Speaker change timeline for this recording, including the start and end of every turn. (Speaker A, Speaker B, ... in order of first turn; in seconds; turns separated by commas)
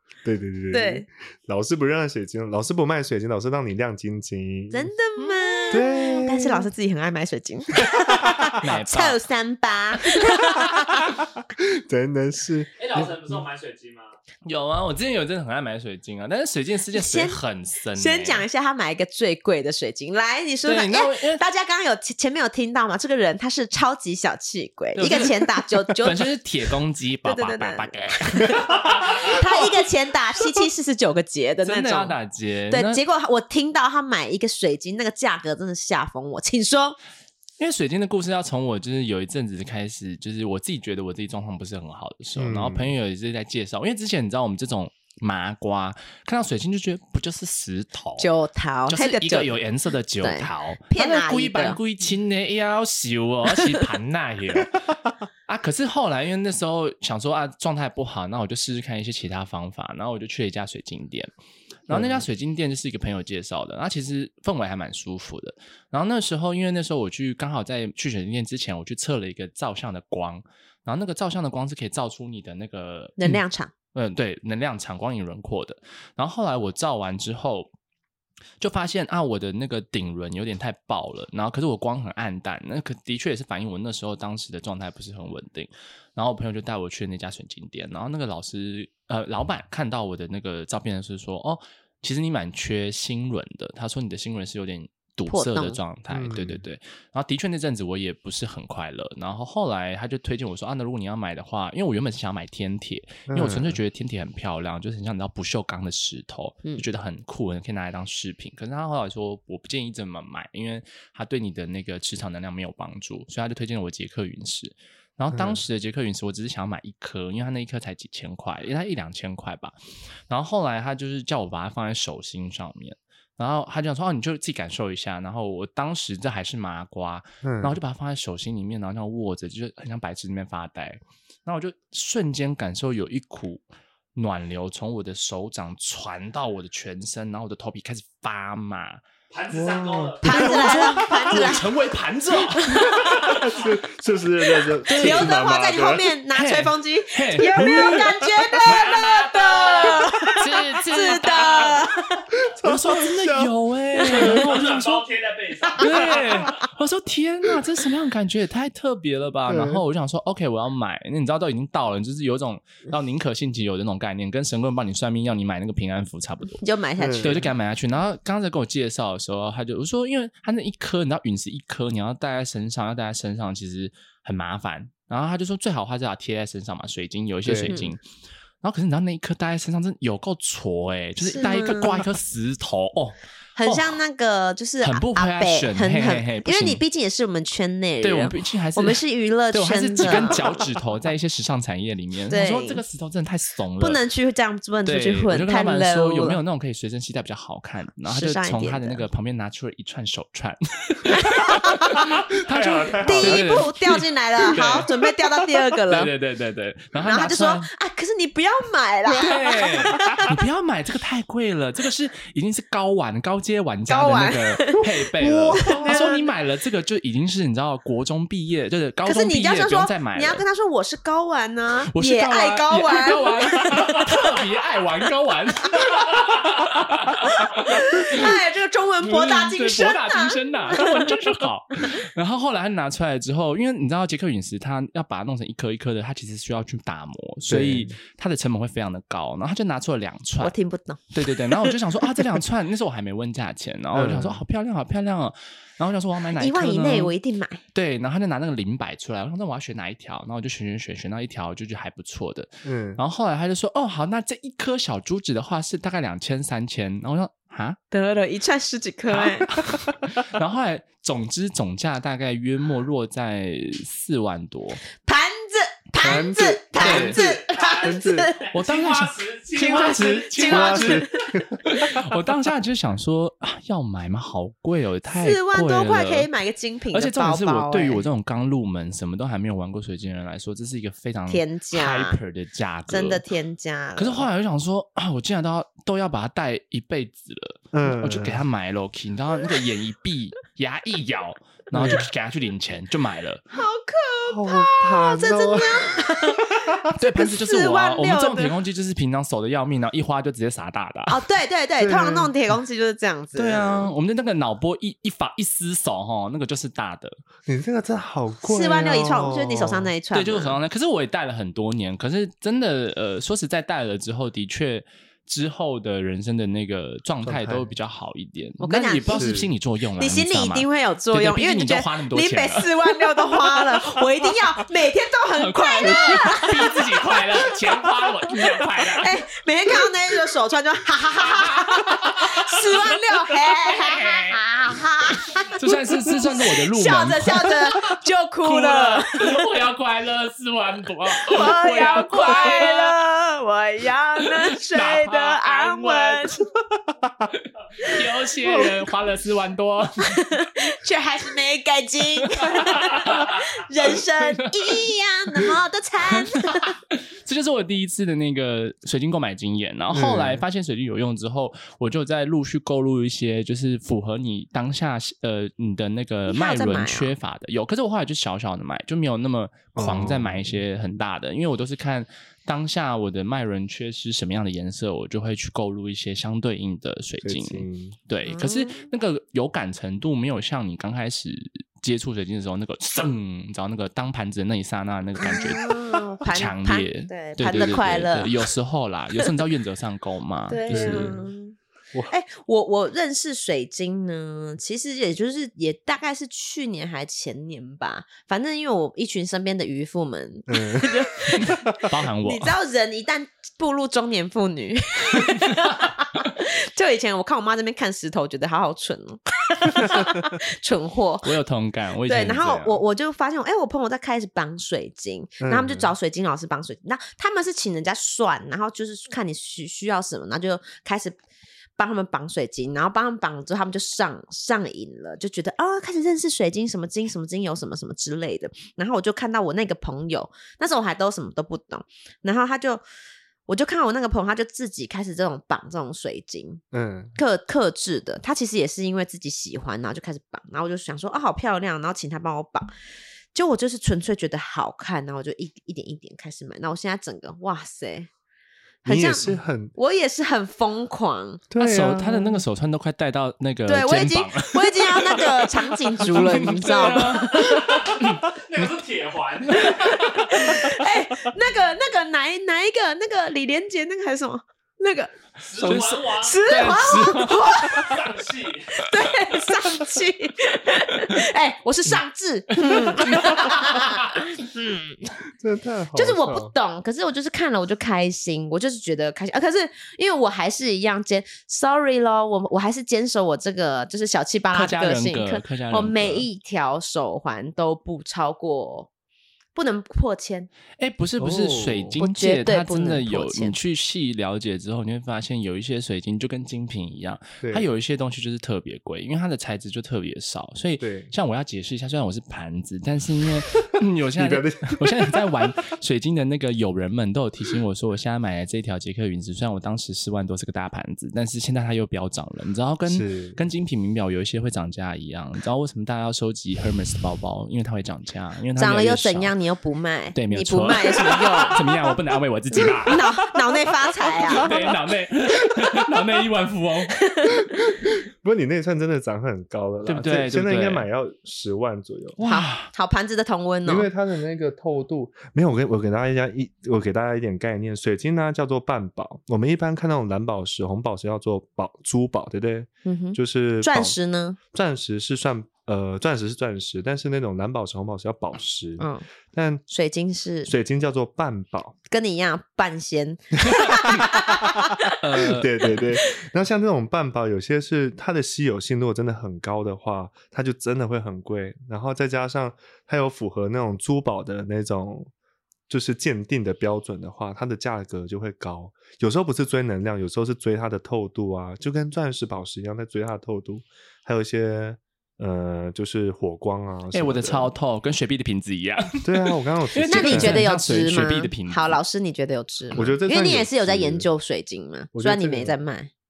Speaker A: 0.2-4.9, Speaker B: 0.7-1.1, Speaker B: 4.7-11.1, Speaker C: 5.2-5.8, Speaker A: 5.7-6.7, Speaker A: 7.8-8.5, Speaker C: 8.6-9.2, Speaker A: 10.5-13.4, Speaker D: 12.8-14.2, Speaker C: 14.4-18.5, Speaker B: 16.9-17.4, Speaker B: 17.9-26.3, Speaker C: 20.6-21.4, Speaker C: 24.9-25.4, Speaker C: 25.9-28.6, Speaker B: 27.2-32.2, Speaker D: 28.7-29.4, Speaker C: 31.6-33.0, Speaker B: 32.7-37.0, Speaker C: 37.6-48.3, Speaker A: 42.4-42.9, Speaker B: 48.2-49.6, Speaker C: 48.9-54.8, Speaker B: 50.2-51.8, Speaker B: 53.5-53.8, Speaker C: 55.5-61.3, Speaker C: 61.9-73.4, Speaker A: 61.9-62.2, Speaker B: 73.2-73.7, Speaker C: 74.0-77.7, Speaker C: 78.6-119.8, Speaker B: 95.3-95.8, Speaker A: 96.1-96.6, Speaker A: 103.3-103.8, Speaker A: 115.3-115.6, Speaker C: 120.3-133.6, Speaker A: 127.4-127.8, Speaker C: 134.2-139.0, Speaker D: 139.3-140.9, Speaker A: 139.5-141.6, Speaker B: 140.2-141.7, Speaker C: 140.3-143.2, Speaker B: 142.5-143.1, Speaker A: 142.7-146.2, Speaker B: 144.9-152.2, Speaker C: 144.9-145.4, Speaker C: 146.3-148.1, Speaker A: 147.6-148.3, Speaker C: 148.6-151.8, Speaker D: 149.8-150.0, Speaker A: 152.3-153.5, Speaker C: 152.6-155.1, Speaker B: 154.0-154.4, Speaker A: 154.0-154.4, Speaker D: 154.2-156.4, Speaker C: 155.8-166.6, Speaker A: 159.5-159.8, Speaker B: 166.6-167.5, Speaker A: 167.0-167.4, Speaker C: 167.2-178.0, Speaker A: 177.4-177.8, Speaker B: 177.7-178.0, Speaker C: 178.6-184.0, Speaker B: 181.2-182.1, Speaker B: 183.6-190.7, Speaker C: 184.8-186.8, Speaker C: 188.0-194.0, Speaker B: 192.3-192.8, Speaker B: 193.8-196.4, Speaker C: 194.8-204.9, Speaker B: 198.1-199.1, Speaker B: 201.1-202.2, Speaker A: 202.4-203.6, Speaker B: 203.0-206.1, Speaker C: 205.8-207.7, Speaker B: 207.0-210.3, Speaker C: 209.1-220.4, Speaker B: 213.9-216.3, Speaker A: 215.2-215.9, Speaker B: 219.1-224.4, Speaker C: 221.8-228.3, Speaker B: 227.4-231.1, Speaker C: 229.0-240.6, Speaker A: 237.5-238.0, Speaker B: 240.4-241.0, Speaker C: 241.1-247.1, Speaker A: 243.9-244.4, Speaker B: 246.4-247.6, Speaker C: 247.7-257.8, Speaker A: 252.6-253.0, Speaker B: 257.9-259.5, Speaker C: 259.1-264.9, Speaker B: 265.0-268.5, Speaker A: 266.0-267.2, Speaker C: 266.8-267.3, Speaker D: 267.2-270.8, Speaker A: 267.8-268.4, Speaker C: 268.5-276.3, Speaker B: 270.2-271.4, Speaker A: 270.3-272.0, Speaker B: 275.1-278.0, Speaker C: 276.9-283.2, Speaker B: 281.3-282.2, Speaker B: 282.9-284.3, Speaker C: 284.0-293.4, Speaker A: 287.7-288.4, Speaker A: 291.7-292.1, Speaker B: 293.5-298.6, Speaker A: 294.3-296.7, Speaker C: 296.9-301.2, Speaker B: 301.1-303.9, Speaker A: 301.8-302.3, Speaker C: 303.4-307.2, Speaker A: 307.5-309.9, Speaker B: 308.4-310.6, Speaker C: 310.1-322.9, Speaker A: 317.2-317.7, Speaker B: 318.6-319.3, Speaker A: 319.1-319.5, Speaker B: 320.0-326.8, Speaker C: 323.6-324.0, Speaker C: 325.4-329.1, Speaker A: 325.9-326.4, Speaker B: 328.9-339.5, Speaker C: 331.1-334.4, Speaker C: 335.5-343.0, Speaker B: 341.2-346.4, Speaker C: 344.2-346.4, Speaker C: 347.8-350.2, Speaker B: 347.8-348.8, Speaker B: 350.1-356.8, Speaker C: 352.2-353.3, Speaker C: 354.2-355.5, Speaker C: 356.1-391.2, Speaker A: 359.9-360.4, Speaker B: 366.3-367.1, Speaker A: 369.8-370.6, Speaker A: 377.2-378.0, Speaker B: 378.3-378.9, Speaker B: 385.2-388.3, Speaker B: 390.5-391.6, Speaker A: 390.7-391.2, Speaker B: 392.1-401.6, Speaker A: 400.5-401.8, Speaker C: 401.9-402.5, Speaker B: 402.2-411.4, Speaker A: 409.8-410.3, Speaker C: 411.2-412.8, Speaker B: 412.1-421.2, Speaker A: 415.4-415.9, Speaker B: 421.8-432.8, Speaker B: 433.5-436.6, Speaker A: 436.7-437.2, Speaker B: 437.2-442.7, Speaker B: 443.3-448.1, Speaker B: 448.8-451.4, Speaker A: 448.9-449.8, Speaker A: 451.5-452.4, Speaker C: 451.6-458.2, Speaker B: 453.7-457.9, Speaker D: 457.3-460.5, Speaker B: 459.8-468.0, Speaker D: 465.4-466.4, Speaker C: 465.6-467.5, Speaker D: 467.6-468.8, Speaker B: 468.7-475.1, Speaker C: 472.6-473.3, Speaker A: 475.4-476.5, Speaker B: 475.9-488.9, Speaker C: 484.5-486.3, Speaker B: 489.6-490.5, Speaker C: 490.8-519.3, Speaker A: 491.2-492.0, Speaker B: 492.0-493.6, Speaker A: 497.4-497.7, Speaker A: 500.8-501.1, Speaker A: 504.2-505.5, Speaker A: 512.9-513.4, Speaker B: 518.6-521.7, Speaker C: 520.1-523.0, Speaker B: 522.6-524.7, Speaker C: 524.3-527.0, Speaker B: 527.0-527.5, Speaker A: 527.4-532.2, Speaker C: 529.9-530.9, Speaker C: 532.2-532.7, Speaker B: 532.2-533.9, Speaker A: 533.7-544.0, Speaker B: 542.9-544.4, Speaker A: 544.5-549.6, Speaker B: 548.8-549.0, Speaker B: 549.7-550.5, Speaker A: 550.5-551.8, Speaker B: 551.9-555.0, Speaker A: 553.5-565.1, Speaker C: 555.0-555.9, Speaker A: 565.7-577.5, Speaker C: 576.9-581.8, Speaker A: 579.0-580.5, Speaker B: 579.9-585.9, Speaker A: 582.8-584.1, Speaker A: 584.9-585.6